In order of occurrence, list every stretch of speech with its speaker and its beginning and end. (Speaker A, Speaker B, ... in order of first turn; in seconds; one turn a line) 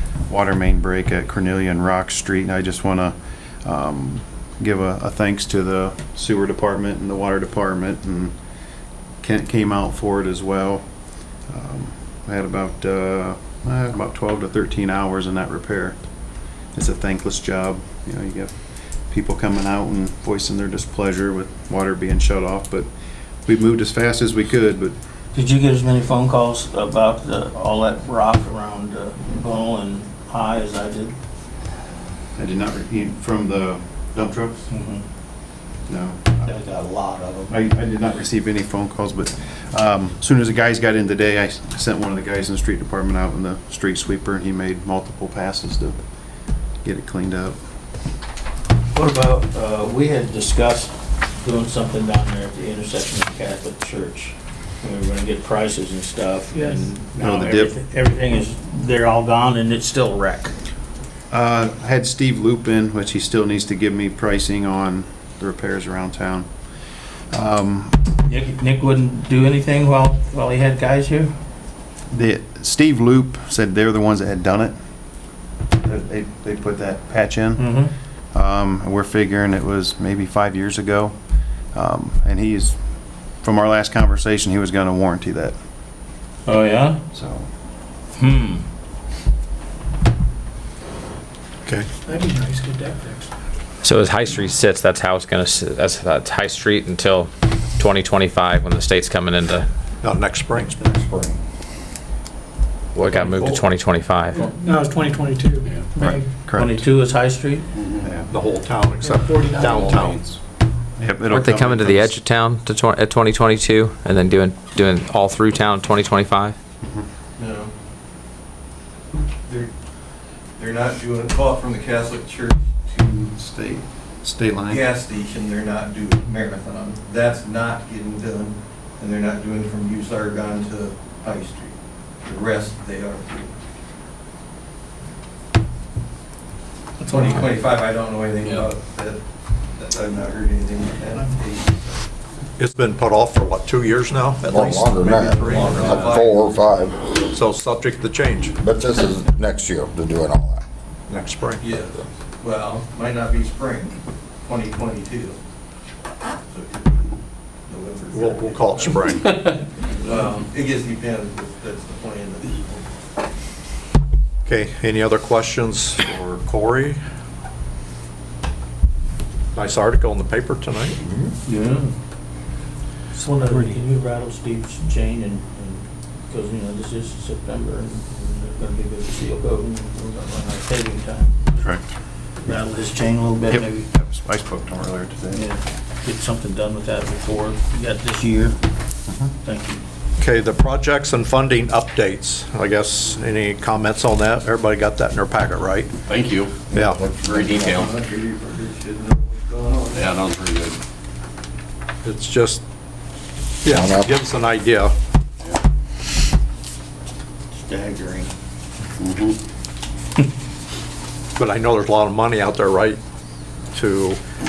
Speaker A: 0.3-8.3
Speaker A: 9.2-10.8
Speaker A: 11.5-16.0
Speaker A: 16.7-18.5
Speaker A: 19.1-22.9
Speaker A: 23.4-25.0
Speaker B: 25.3-31.1
Speaker A: 32.4-34.6
Speaker B: 34.7-35.0
Speaker A: 35.9-36.5
Speaker B: 36.4-37.5
Speaker A: 37.5-46.0
Speaker A: 46.8-47.6
Speaker B: 48.9-60.5
Speaker C: 56.5-56.9
Speaker A: 57.2-57.7
Speaker A: 61.3-66.5
Speaker A: 67.3-68.0
Speaker B: 68.2-71.3
Speaker A: 72.1-74.7
Speaker A: 75.8-77.7
Speaker B: 77.6-77.9
Speaker A: 78.3-81.1
Speaker A: 81.7-82.8
Speaker A: 83.4-85.5
Speaker B: 86.5-87.0
Speaker A: 87.1-87.5
Speaker B: 88.2-88.6
Speaker C: 92.0-93.3
Speaker D: 93.8-99.7
Speaker E: 100.0-100.7
Speaker F: 100.9-101.3
Speaker D: 102.9-104.4
Speaker C: 104.3-106.3
Speaker A: 106.0-106.8
Speaker B: 106.6-107.7
Speaker A: 108.0-108.3
Speaker E: 108.3-110.2
Speaker C: 109.0-110.2
Speaker A: 109.6-110.4
Speaker A: 111.0-112.1
Speaker D: 111.3-116.6
Speaker G: 117.4-117.7
Speaker G: 119.5-119.7
Speaker G: 120.6-123.3
Speaker A: 123.3-124.8
Speaker G: 124.7-133.5
Speaker C: 137.0-137.3
Speaker G: 137.0-139.2
Speaker G: 139.7-142.0
Speaker E: 142.6-146.2
Speaker F: 144.4-147.1
Speaker G: 144.8-146.6
Speaker E: 147.3-148.5
Speaker F: 148.6-150.6
Speaker E: 151.1-151.7
Speaker G: 151.6-155.4
Speaker G: 156.5-157.1
Speaker G: 157.7-159.0
Speaker E: 158.1-159.5
Speaker G: 159.9-162.9
Speaker E: 164.4-167.0
Speaker E: 169.5-170.9
Speaker F: 171.0-171.3
Speaker B: 171.4-171.9
Speaker B: 173.1-181.4
Speaker C: 173.2-173.8
Speaker A: 181.6-181.8
Speaker B: 182.4-183.8
Speaker A: 183.5-185.4
Speaker B: 185.3-188.6
Speaker A: 189.1-189.3
Speaker B: 189.4-189.8
Speaker E: 190.2-195.9
Speaker H: 196.1-197.9
Speaker E: 196.7-197.0
Speaker F: 196.7-197.6
Speaker G: 197.5-200.1
Speaker H: 199.9-200.8
Speaker E: 202.0-202.6
Speaker E: 203.6-204.9
Speaker F: 203.6-204.1
Speaker B: 207.5-208.3
Speaker F: 209.0-209.3
Speaker E: 211.4-213.0
Speaker E: 213.7-214.2